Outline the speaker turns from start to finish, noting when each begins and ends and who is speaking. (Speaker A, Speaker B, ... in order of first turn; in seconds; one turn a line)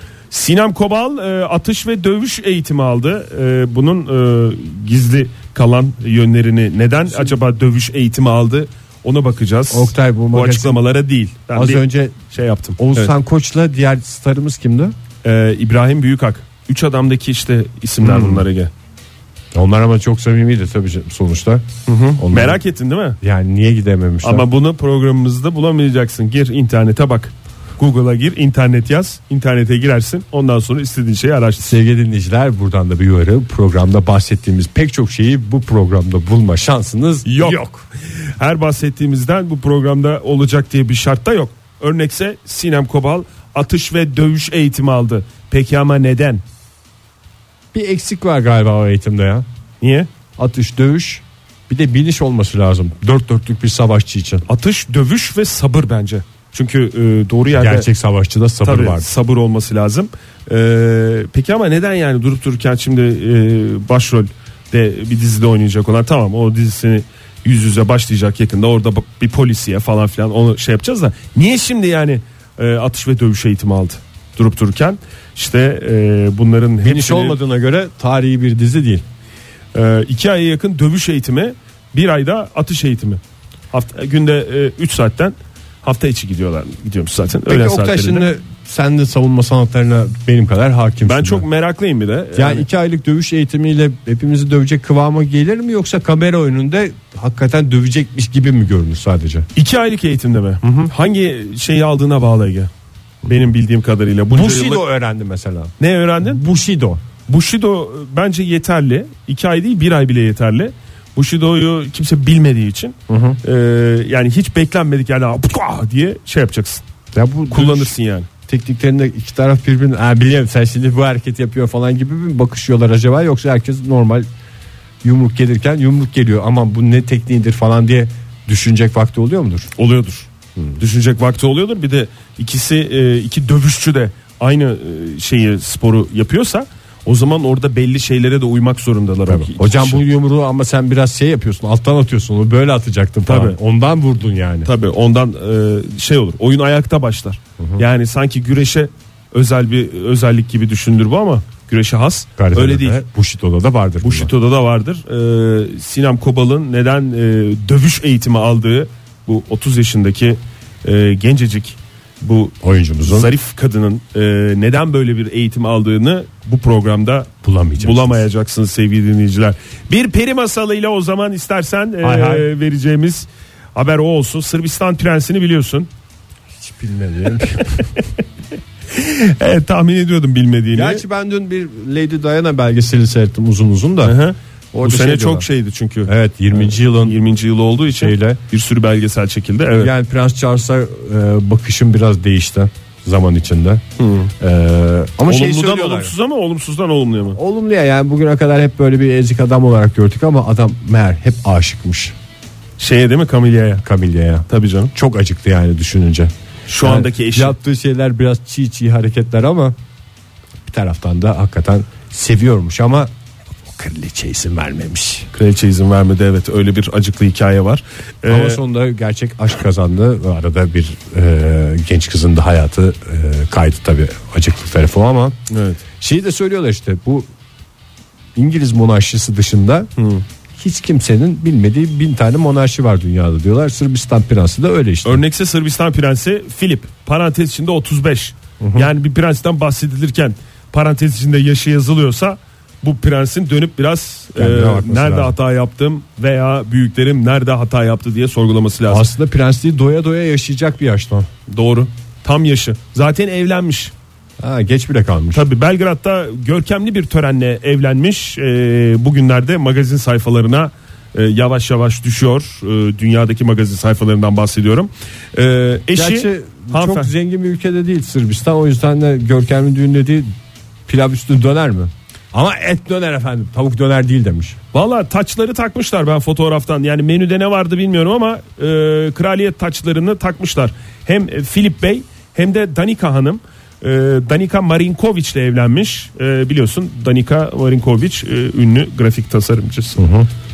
Speaker A: 0.3-13.1
Speaker B: 9.7-10.8
Speaker B: 11.5-12.2
Speaker B: 12.8-14.9
Speaker A: 15.2-18.7
Speaker B: 18.0-18.4
Speaker B: 19.5-21.6
Speaker A: 21.9-23.2
Speaker B: 22.2-22.6
Speaker B: 23.2-24.4
Speaker A: 24.2-31.8
Speaker B: 31.6-37.8
Speaker A: 37.2-37.6
Speaker A: 38.4-46.4
Speaker B: 47.7-49.4
Speaker A: 49.8-50.1
Speaker B: 50.4-54.4
Speaker A: 54.5-57.9
Speaker B: 57.5-59.1
Speaker A: 58.6-77.4
Speaker B: 76.8-79.0
Speaker A: 79.7-83.2
Speaker A: 83.7-88.3
Speaker B: 87.5-91.5
Speaker A: 91.0-92.6
Speaker B: 92.3-99.5
Speaker A: 99.5-102.7
Speaker B: 100.6-100.9
Speaker A: 103.2-104.8
Speaker B: 104.3-107.0
Speaker A: 105.8-106.4
Speaker A: 107.3-116.8
Speaker B: 113.1-113.4
Speaker B: 117.1-117.9
Speaker A: 117.5-118.3
Speaker B: 118.5-124.3
Speaker B: 125.0-129.7
Speaker A: 129.8-140.0
Speaker B: 139.3-144.7
Speaker A: 143.2-143.6
Speaker A: 144.6-153.0
Speaker B: 152.4-154.3
Speaker A: 154.0-175.9
Speaker B: 162.6-163.3
Speaker B: 167.4-168.2
Speaker B: 172.0-172.5
Speaker B: 176.6-177.8
Speaker A: 178.9-181.0
Speaker B: 180.7-184.2
Speaker A: 184.0-189.9
Speaker B: 184.7-185.4
Speaker B: 186.1-187.2
Speaker B: 187.9-188.4
Speaker B: 189.8-196.1
Speaker A: 194.0-194.3
Speaker A: 195.2-197.4
Speaker B: 197.3-202.1
Speaker A: 202.8-203.8
Speaker B: 203.8-209.8
Speaker A: 204.5-204.9
Speaker A: 206.7-207.5
Speaker B: 210.7-213.1
Speaker B: 213.7-215.3
Speaker A: 215.3-218.6
Speaker B: 218.3-225.3
Speaker A: 225.5-225.8
Speaker B: 226.0-227.3
Speaker B: 228.3-229.9
Speaker A: 230.0-230.2
Speaker B: 230.5-235.2
Speaker A: 235.0-249.1
Speaker B: 238.6-238.9
Speaker B: 244.3-245.3
Speaker B: 248.9-251.3
Speaker A: 251.5-253.9
Speaker B: 254.4-255.5
Speaker A: 255.3-267.1
Speaker B: 265.9-270.3
Speaker B: 270.9-274.6
Speaker A: 274.7-290.0
Speaker B: 290.0-290.3